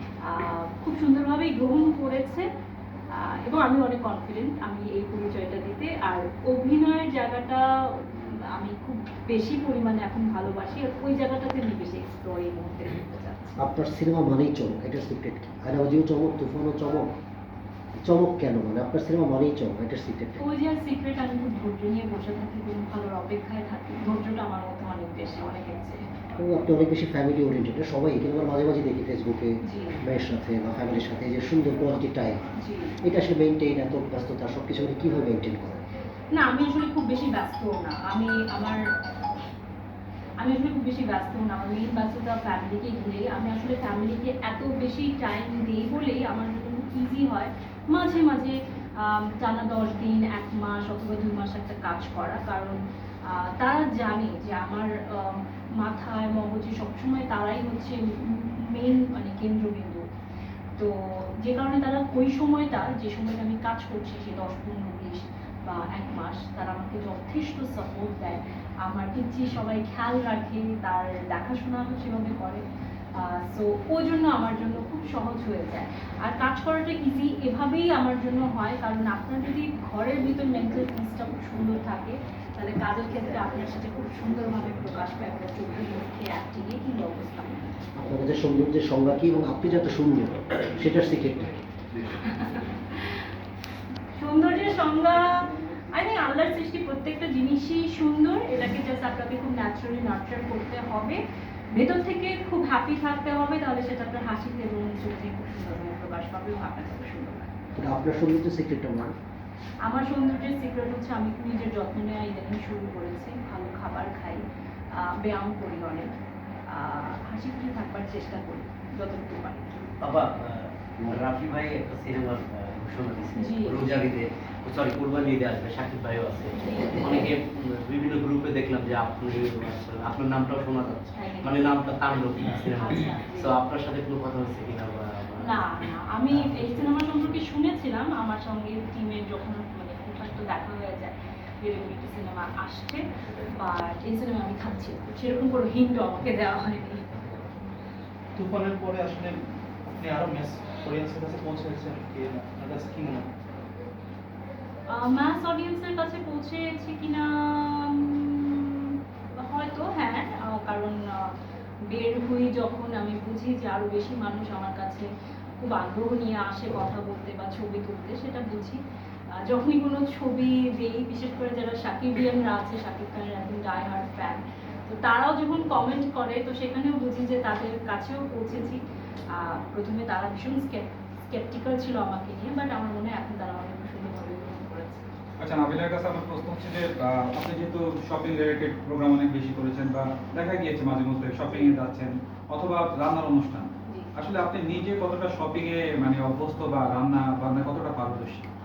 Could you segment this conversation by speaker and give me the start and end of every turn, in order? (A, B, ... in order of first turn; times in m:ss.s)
0:00.2-0:02.4 A
0:03.2-0:13.6 A
0:13.6-0:17.1 B
0:18.0-0:20.4 B
0:20.4-0:26.0 A
0:26.4-0:32.4 B
0:29.6-0:30.0 A
0:32.6-0:32.9 A
0:33.0-0:35.8 B
0:36.3-0:38.8 A
0:40.4-1:00.0 A
1:00.8-1:12.6 A
1:13.2-1:27.6 A
1:28.0-1:31.6 B
1:32.0-1:33.2 A
1:34.2-1:41.2 A
1:41.7-1:47.7 A
1:47.8-1:49.1 B
1:49.8-1:56.1 A
1:56.7-1:59.8 A
2:00.0-2:15.6 C
2:03.3-2:03.8 A
2:06.6-2:07.3 A
2:11.2-2:11.5 A
2:12.7-2:13.6 A
2:15.4-2:27.0 A
2:16.3-2:16.9 C
2:28.4-2:29.3 D
2:29.9-2:33.3 D
2:34.9-2:41.3 A
2:41.9-2:45.1 A
2:45.6-2:48.8 A
2:49.4-2:58.8 A
2:59.3-3:05.1 A
3:05.4-3:18.5 E
3:11.5-3:11.8 A